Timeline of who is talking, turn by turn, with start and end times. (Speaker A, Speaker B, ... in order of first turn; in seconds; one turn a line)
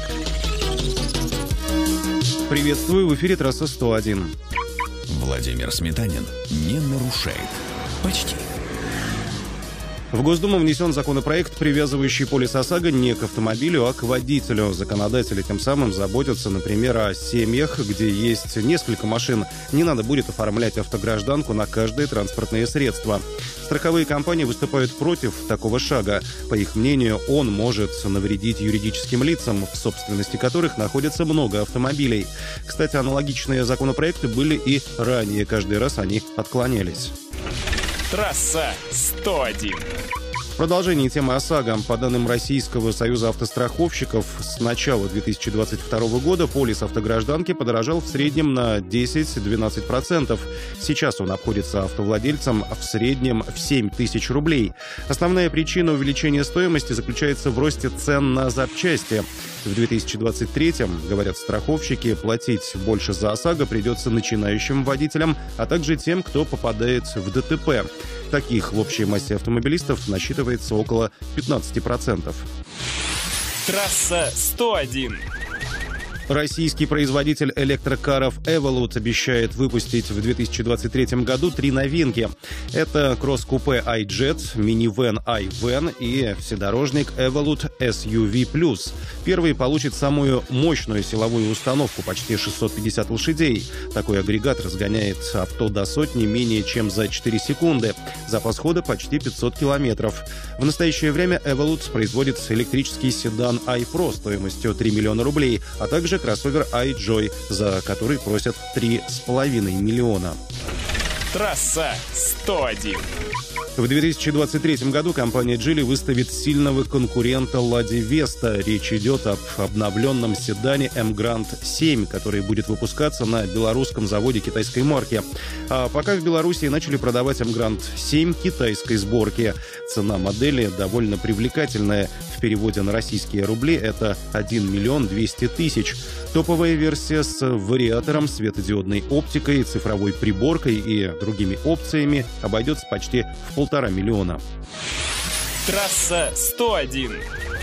Speaker A: 2.5-4.3
Speaker B: 5.1-8.5
Speaker A: 10.1-37.1
Speaker C: 38.1-39.9
Speaker A: 40.6-72.5
Speaker C: 73.6-75.2
Speaker A: 76.3-110.4
Speaker C: 111.3-113.1
Speaker A: 113.8-144.4
Speaker C: 145.6-147.2